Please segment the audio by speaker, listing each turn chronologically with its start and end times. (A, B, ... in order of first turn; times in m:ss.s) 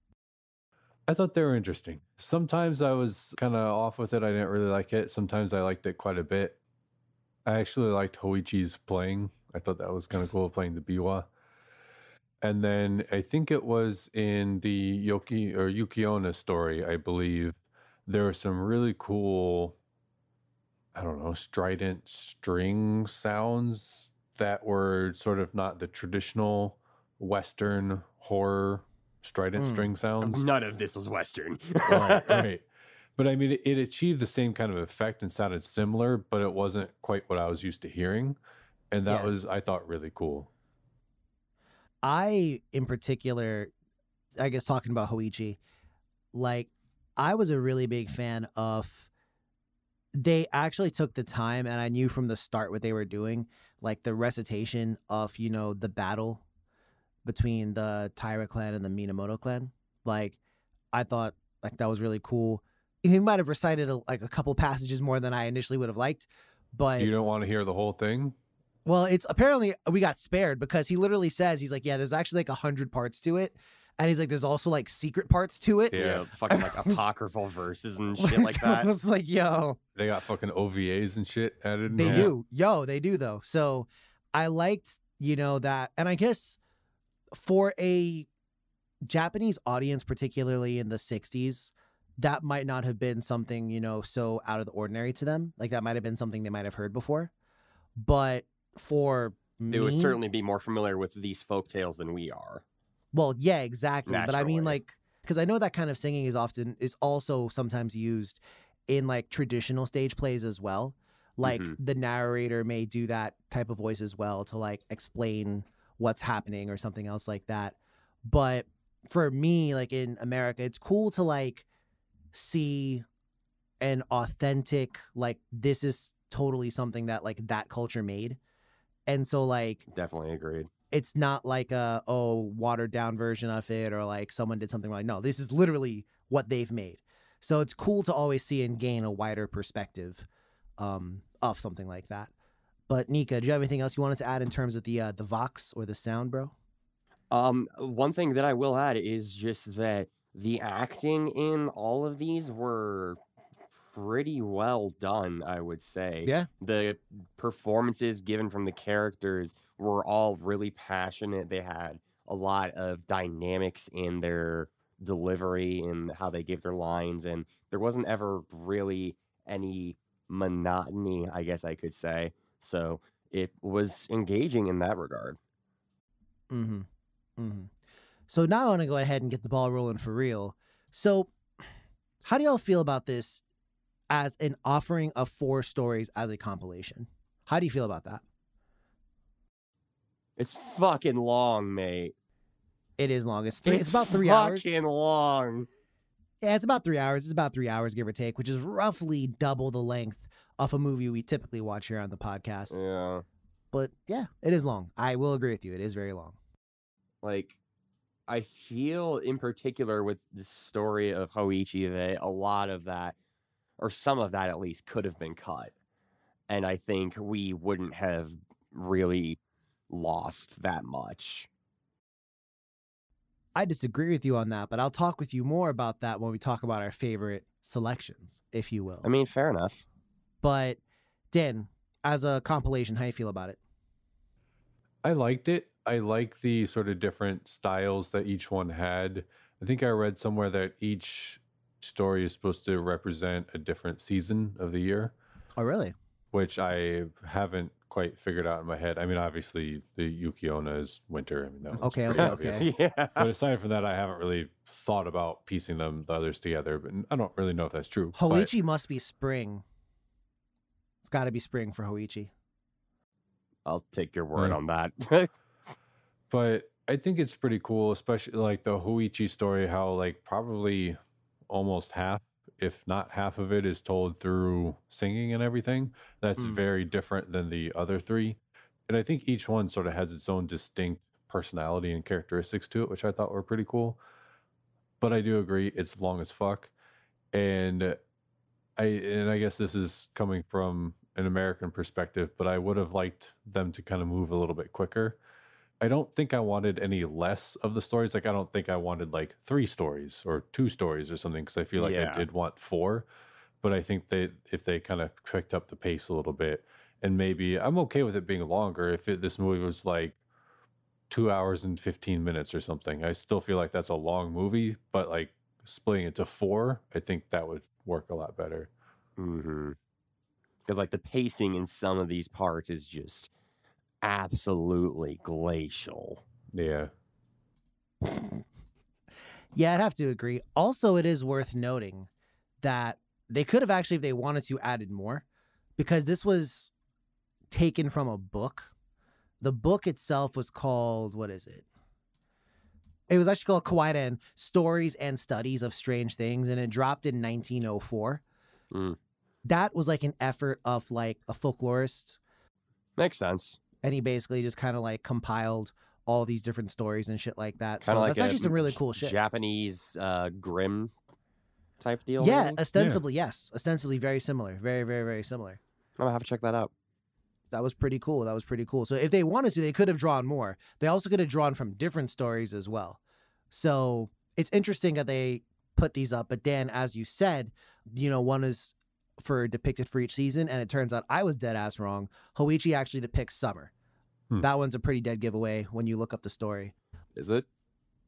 0:01.1-0:06.6 A
0:07.4-0:11.3 A
0:12.4-0:19.8 A
0:20.9-0:30.4 A
0:29.6-0:29.8 B
0:30.2-0:32.4 C
0:31.8-0:32.6 A
0:33.2-0:38.4 A
0:38.9-0:40.5 A
0:39.1-0:39.3 B
0:42.0-0:43.7 B
0:44.4-0:45.6 B
0:46.3-0:49.1 B
0:50.2-0:56.4 B
0:57.2-1:00.4 B
1:00.9-1:07.1 B
1:07.0-1:08.4 A
1:08.8-1:17.0 B
1:15.9-1:16.3 A
1:15.9-1:18.9 C
1:18.2-1:19.8 B
1:20.0-1:22.3 A
1:21.9-1:26.6 B
1:22.0-1:22.3 C
1:27.3-1:28.3 B
1:29.0-1:37.3 B
1:38.0-1:40.2 B
1:39.7-1:42.6 C
1:43.1-2:01.6 B
1:44.1-1:44.8 C
1:51.4-1:51.8 C
2:02.3-2:03.0 B
2:03.8-2:08.4 B
2:09.1-2:09.8 B
2:09.9-2:10.7 C
2:10.9-2:20.3 B
2:20.8-2:22.3 B
2:22.9-2:26.5 B
2:27.3-2:33.2 C
2:33.8-2:55.4 C
2:56.5-2:56.9 B
2:57.4-2:57.7 B
2:58.3-3:01.3 B
3:02.2-3:03.4 B
3:04.1-3:08.2 B
3:10.4-3:12.1 C
3:13.0-3:14.8 B
3:13.6-3:15.7 C
3:16.4-3:22.8 B
3:22.7-3:23.2 C
3:23.7-3:26.4 B
3:27.2-3:27.6 C
3:28.3-3:33.2 C
3:33.8-3:35.7 C
3:36.5-3:39.4 C
3:39.9-3:41.5 C
3:43.5-3:49.1 B
3:49.0-3:49.8 C
3:50.4-3:50.8 B
3:51.3-3:53.6 B
3:55.0-4:05.1 A
4:05.6-4:05.9 B
4:06.3-4:18.5 A
4:11.8-4:12.7 B
4:12.2-4:13.3 C
4:18.1-4:19.6 B
4:21.0-4:22.3 B
4:23.6-4:25.3 C
4:26.3-4:31.0 A
4:31.5-4:44.0 A
4:45.0-4:46.7 A
4:47.3-4:48.0 A
4:48.8-4:55.2 A
4:55.8-5:03.0 A
5:01.8-5:02.2 C
5:03.6-5:10.2 A
5:11.1-5:18.7 A
5:19.2-5:19.8 C
5:20.6-5:23.3 C
5:24.0-5:26.2 C
5:26.5-5:26.9 A
5:28.0-5:28.4 B
5:29.5-5:32.1 B
5:32.6-5:35.2 B
5:35.8-5:36.7 B
5:37.5-5:38.7 B
5:39.4-5:41.6 B
5:43.1-5:48.2 B
5:48.7-5:49.0 C
5:49.4-5:52.2 B
5:53.0-5:53.6 C
5:53.8-5:59.2 B
5:57.8-6:00.9 C
6:01.8-6:02.6 C
6:02.2-6:05.6 B
6:02.8-6:03.0 A
6:06.0-6:06.7 C
6:07.5-6:13.0 B
6:13.5-6:23.7 B
6:24.4-6:26.7 B
6:27.2-6:27.4 C